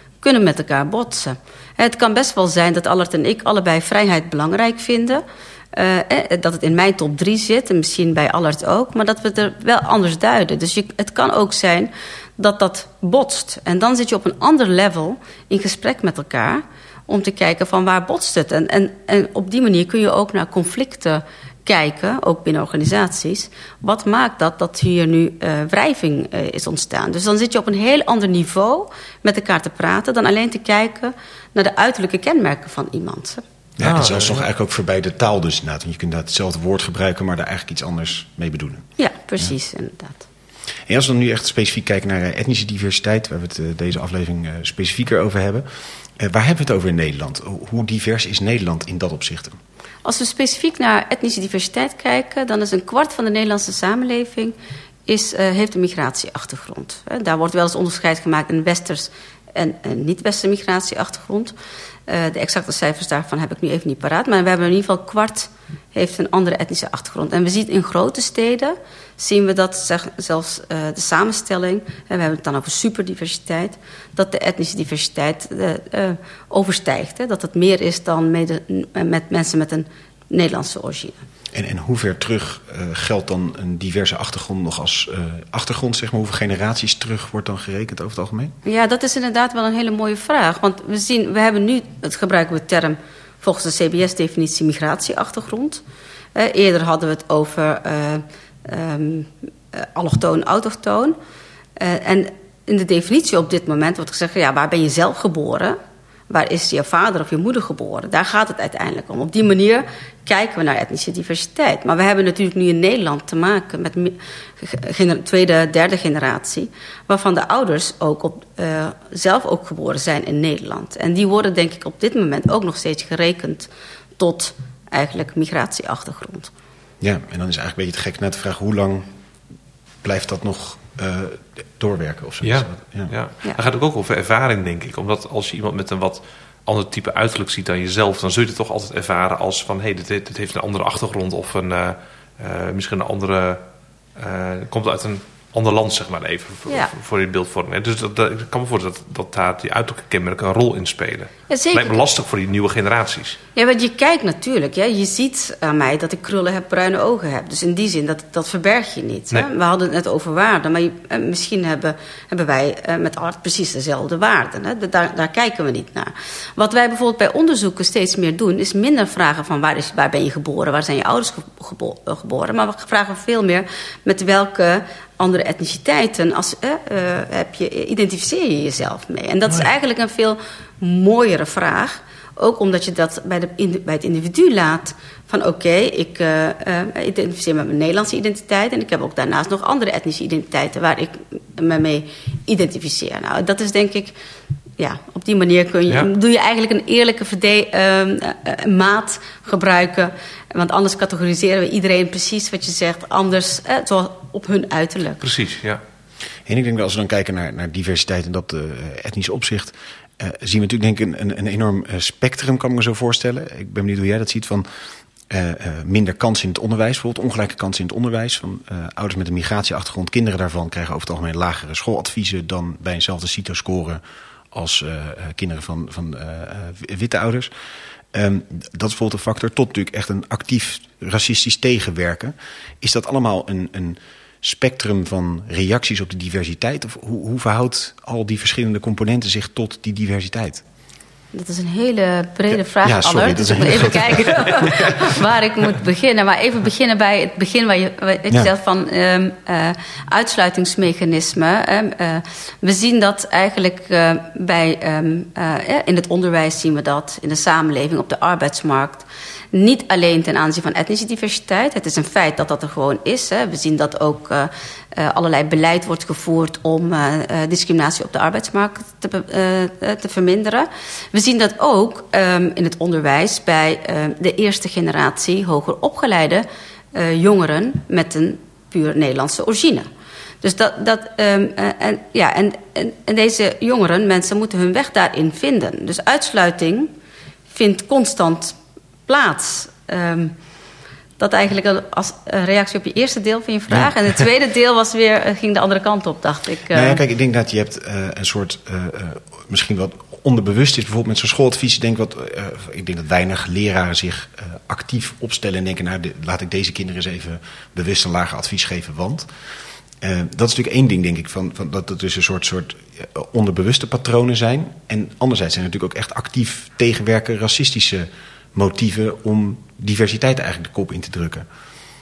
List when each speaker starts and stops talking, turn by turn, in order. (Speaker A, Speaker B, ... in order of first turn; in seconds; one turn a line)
Speaker A: 0.2-5.2
Speaker A: 5.7-33.4
Speaker B: 33.8-38.9
Speaker C: 33.8-34.5
Speaker A: 39.0-40.2
Speaker B: 40.9-45.7
Speaker B: 46.2-49.6
Speaker A: 50.0-54.6
Speaker A: 55.1-61.5
Speaker A: 62.1-81.2
Speaker B: 81.5-88.5
Speaker A: 88.7-95.8
Speaker A: 96.4-101.2
Speaker A: 101.8-105.8
Speaker A: 106.3-126.5
Speaker B: 127.0-129.1
Speaker B: 130.0-133.1
Speaker C: 132.4-143.6
Speaker C: 144.2-153.4
Speaker A: 151.5-152.0
Speaker A: 153.6-194.2
Speaker A: 194.8-205.2
Speaker C: 205.2-205.8
Speaker B: 206.5-214.7
Speaker B: 215.3-227.5
Speaker B: 228.1-240.6
Speaker A: 241.3-279.9
Speaker B: 242.8-245.1
Speaker A: 280.4-286.9
Speaker A: 287.5-290.3
Speaker A: 291.2-297.0
Speaker B: 296.7-309.3
Speaker B: 310.0-321.5